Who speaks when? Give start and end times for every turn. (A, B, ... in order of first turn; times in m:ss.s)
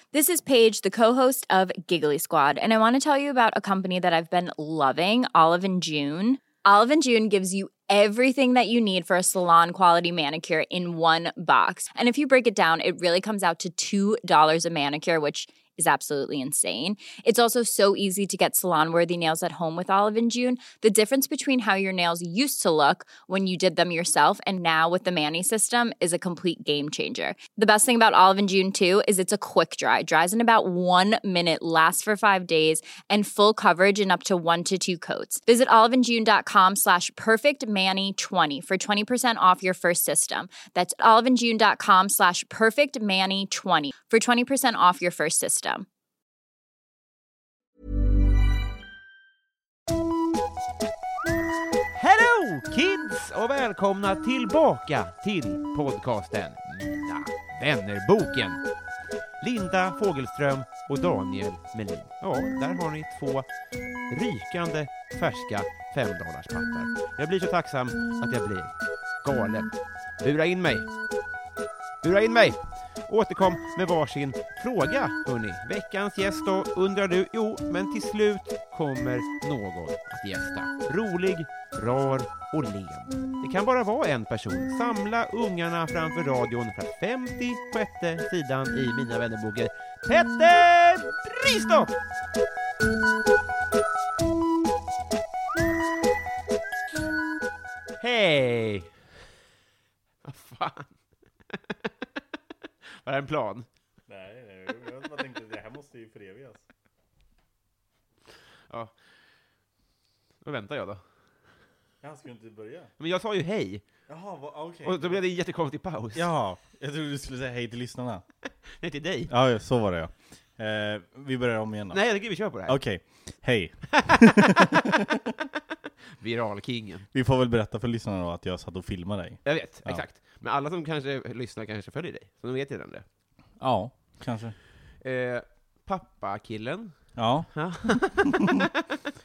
0:00.1-0:45.8 A
0:52.0-0:58.6 B
0:59.4-1:03.5 B
1:04.1-1:10.9 B
1:12.0-1:32.0 B
1:38.0-1:38.9 B
1:40.2-1:40.9 B
1:43.0-1:43.7 B
1:44.1-1:46.6 C
1:48.7-1:48.9 B
1:50.4-1:51.0 B
1:52.0-1:52.9 C
1:53.0-1:53.8 B
1:54.1-1:55.2 C
1:54.8-1:56.3 B
1:56.1-1:58.2 C
1:58.8-1:59.3 B
1:59.3-2:02.0 C
2:01.9-2:02.8 B
2:02.6-2:04.8 C
2:03.9-2:05.0 B
2:06.2-2:07.0 B
2:07.1-2:10.0 C
2:09.4-2:13.0 B
2:13.6-2:14.6 C
2:15.0-2:16.9 B
2:17.2-2:18.6 C
2:17.5-2:18.7 B